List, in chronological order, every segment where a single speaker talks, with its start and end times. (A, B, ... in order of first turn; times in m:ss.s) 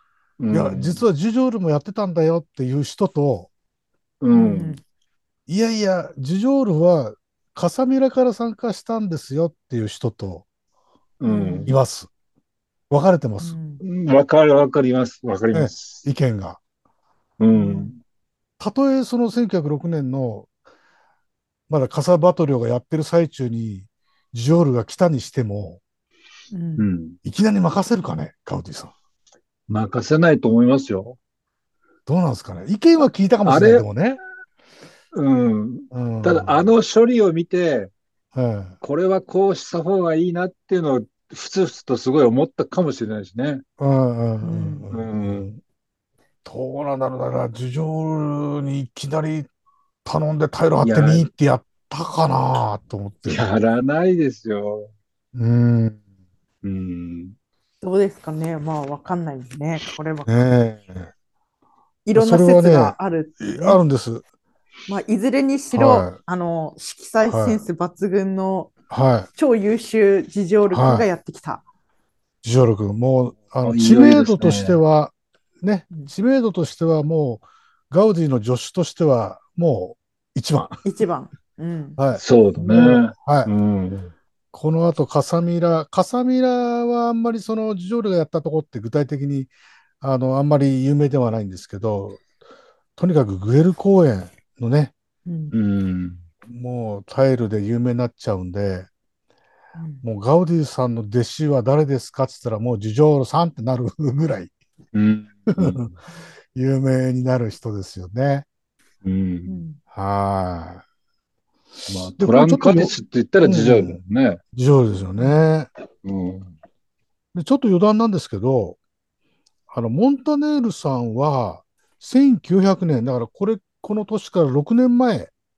0:00.4-0:01.0 A
0:00.5-0:03.5 B
0:04.2-0:04.8 A
0:04.3-0:04.8 C
0:05.5-0:10.4 B
0:11.2-0:11.8 A
0:11.2-0:11.7 C
0:11.6-0:12.1 B
0:12.9-0:13.6 B
0:13.4-0:13.8 C
0:13.8-0:16.0 A
0:15.5-0:16.6 B
0:17.4-0:18.0 A
0:17.5-0:17.9 C
0:18.6-0:20.5 B
0:21.7-0:25.8 B
0:26.5-0:26.9 C
0:26.8-0:27.2 A
0:27.2-0:28.9 B
0:29.7-0:31.2 A
0:32.0-0:34.2 B
0:33.4-0:33.9 A
0:35.1-0:37.9 A
0:35.9-0:36.7 B
0:38.3-0:38.8 B
0:38.8-0:43.6 A
0:43.8-0:45.6 B
0:44.4-0:44.9 C
0:44.9-0:45.4 A
0:46.4-0:49.5 B
0:50.0-0:53.4 B
0:50.8-0:51.3 A
0:53.2-0:54.9 A
0:55.3-0:56.0 B
0:56.6-0:57.3 A
0:57.8-1:00.4 C
1:00.3-1:01.1 B
1:02.0-1:03.8 C
1:02.1-1:04.2 B
1:04.9-1:08.7 C
1:05.7-1:06.2 B
1:07.3-1:07.6 B
1:08.9-1:09.3 B
1:09.3-1:11.6 C
1:10.7-1:11.1 B
1:12.4-1:20.8 B
1:13.6-1:14.8 A
1:20.8-1:22.0 C
1:22.0-1:23.5 B
1:22.2-1:24.1 A
1:24.5-1:32.2 B
1:33.0-1:34.9 B
1:35.2-1:35.5 C
1:35.5-1:36.2 A
1:36.5-1:38.9 B
1:39.8-1:40.0 C
1:40.0-1:44.5 B
1:44.9-1:45.9 A
1:45.5-1:45.9 B
1:46.5-1:48.4 B
1:49.0-1:49.6 A
1:49.5-1:49.8 C
1:49.9-1:50.8 B
1:51.9-1:54.4 A
1:52.2-1:54.0 B
1:54.5-1:55.7 B
1:55.2-1:55.4 C
1:56.0-1:56.5 A
1:57.3-1:58.8 B
1:59.7-2:05.3 B